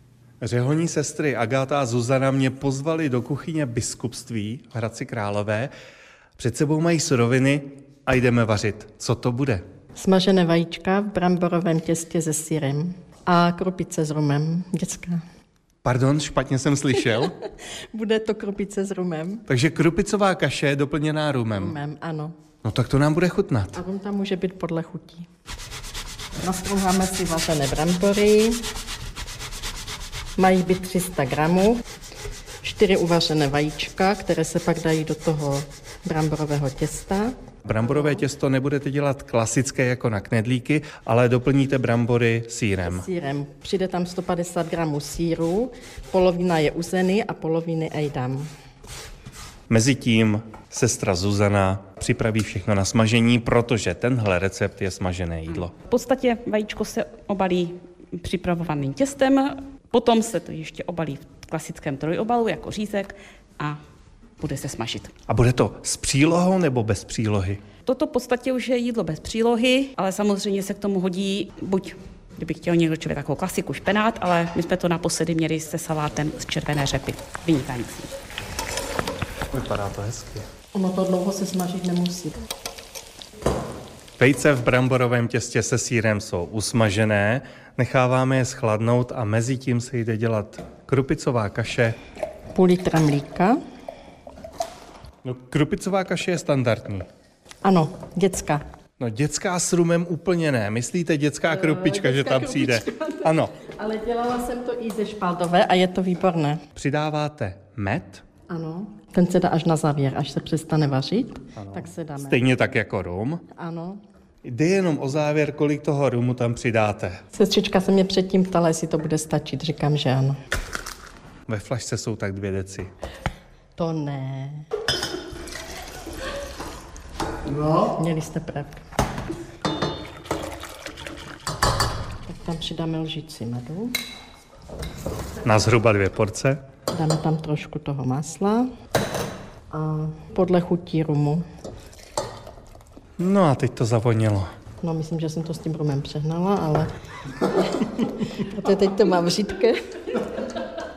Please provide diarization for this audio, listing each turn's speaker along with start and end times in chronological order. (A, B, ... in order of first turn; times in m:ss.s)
0:00.4-0:05.7 A
0:06.4-0:09.6 A
0:10.0-0:15.2 B
0:15.8-0:17.4 A
0:17.9-0:19.4 B
0:19.5-0:21.8 A
0:21.5-0:22.3 B
0:22.6-0:23.8 A
0:23.7-0:25.3 B
0:26.4-0:28.6 B
0:30.4-0:31.8 B
0:32.6-0:37.3 B
0:37.6-0:43.1 A
0:37.9-0:38.2 B
0:42.8-0:48.5 B
0:49.7-0:55.7 A
0:55.7-1:03.8 C
1:04.4-1:05.1 C
1:05.3-1:07.6 A
1:07.8-1:18.1 C
1:19.5-1:20.4 A
1:20.7-1:22.4 B
1:24.2-1:32.0 A
1:32.5-1:33.6 B
1:35.2-1:37.1 A
1:37.6-1:38.6 B
1:39.0-1:43.5 A
1:41.5-1:46.6 B
1:46.8-1:48.2 A
1:48.5-1:52.5 B
1:51.6-1:53.4 A
1:53.6-1:54.0 B
1:54.4-1:57.2 A
1:57.3-2:00.4 B
2:01.5-2:02.9 A
2:03.8-2:04.6 B
2:07.8-2:08.8 B
2:12.3-2:14.0 B
2:15.4-2:16.6 A
2:16.9-2:18.7 B
2:19.7-2:21.4 B
2:23.2-2:24.5 A
2:24.8-2:26.9 B
2:28.0-2:29.8 B